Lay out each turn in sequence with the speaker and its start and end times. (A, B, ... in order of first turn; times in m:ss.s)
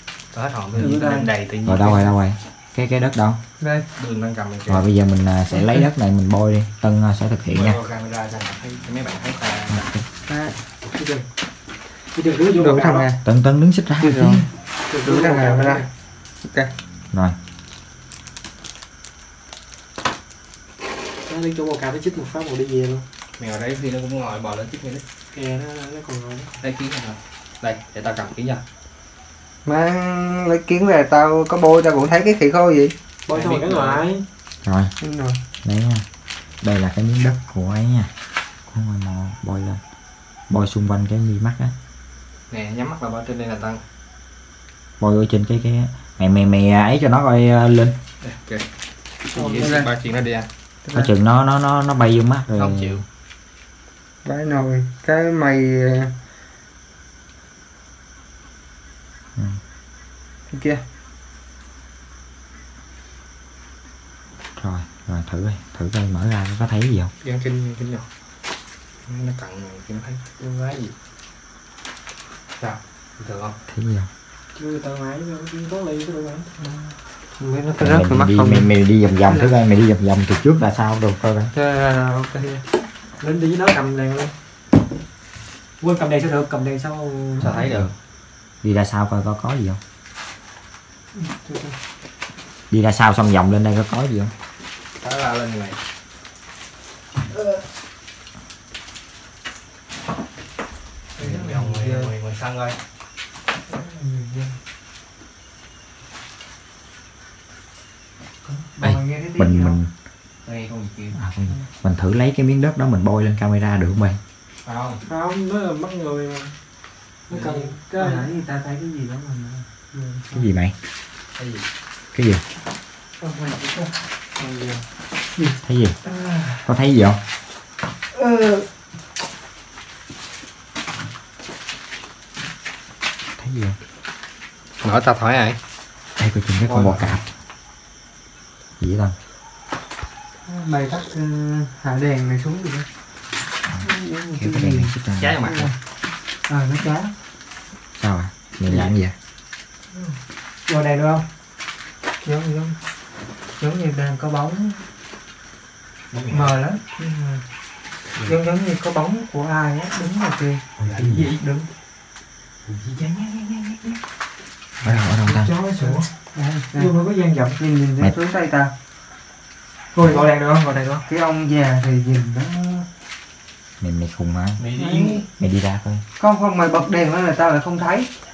0:00.3-0:02.1 A
0:00.8-0:01.3 B
0:01.6-0:03.4 C
0:03.6-0:03.9 D
0:04.0-0:04.8 A
0:04.7-0:07.8 C
0:07.5-0:09.9 A
0:09.7-0:10.0 C
0:10.3-0:10.6 D
0:10.8-0:11.3 B
0:12.1-0:13.1 B
0:12.4-0:13.2 D
0:13.2-0:14.5 C
0:14.0-0:15.8 D
0:14.9-0:15.9 B
0:16.4-0:16.7 D
0:21.2-0:23.0 B
0:23.4-0:25.0 A
0:25.3-0:26.5 B
0:26.6-0:28.6 A
0:29.6-0:32.9 D
0:33.3-0:34.2 B
0:33.3-0:34.0 A
0:34.6-0:34.9 C
0:35.0-0:35.4 D
0:35.6-0:36.0 C
0:36.6-0:38.1 C
0:38.7-0:39.8 C
0:40.5-0:41.7 C
0:42.5-0:43.8 A
0:45.0-0:48.0 C
0:48.2-0:48.7 A
0:49.2-0:50.5 A
0:49.4-0:49.9 D
0:50.8-0:51.1 D
0:50.9-0:53.0 C
0:52.5-0:53.0 A
0:54.2-0:56.1 D
0:59.4-0:59.6 C
1:00.5-1:00.8 D
1:04.6-1:07.1 C
1:07.2-1:08.1 A
1:09.0-1:10.3 A
1:12.6-1:13.6 A
1:13.7-1:14.1 C
1:14.5-1:16.9 B
1:17.4-1:18.7 D
1:17.8-1:21.5 C
1:19.3-1:19.5 D
1:21.5-1:22.6 D
1:23.2-1:24.3 B
1:25.8-1:27.7 B
1:27.4-1:27.9 A
1:27.4-1:27.9 C
1:28.6-1:29.8 C
1:31.4-1:31.7 D
1:32.7-1:34.3 C
1:35.0-1:35.8 A
1:41.2-1:42.8 A
1:41.2-1:42.1 D
1:43.7-1:44.5 D
1:48.5-1:49.8 D
1:48.8-1:49.9 C
1:50.4-1:51.2 A
1:51.1-1:54.2 C
1:54.6-1:55.0 A
1:55.0-1:56.6 B
1:57.3-1:58.3 B
1:57.3-1:57.7 A
1:57.9-2:00.4 D
2:00.3-2:00.7 C
2:01.3-2:01.6 A
2:02.1-2:02.4 C
2:03.2-2:04.8 D
2:05.6-2:06.0 C
2:06.0-2:06.6 D
2:06.6-2:07.2 C
2:08.1-2:08.7 D
2:13.4-2:13.8 C
2:14.8-2:15.6 A
2:16.2-2:17.2 C
2:18.8-2:19.1 C
2:20.4-2:22.9 D
2:23.7-2:25.4 C
2:23.8-2:25.8 D
2:25.2-2:25.7 A
2:26.5-2:27.1 D
2:28.0-2:29.2 C
2:28.7-2:28.9 A
2:30.7-2:31.3 B
2:32.2-2:32.8 D
2:33.6-2:34.8 D
2:36.1-2:36.5 A
2:36.3-2:37.4 D
2:38.2-2:40.7 D
2:40.8-2:41.4 C
2:40.8-2:41.6 A
2:44.8-2:45.5 C
2:45.2-2:46.1 B
2:45.8-2:46.9 D
2:46.7-2:47.6 B
2:47.6-2:48.7 D
2:49.9-2:51.0 B
2:51.0-2:52.9 D
2:53.8-2:54.6 C
2:54.6-2:55.2 A
2:54.7-2:55.2 D
2:55.4-2:56.0 C
2:56.2-2:58.1 D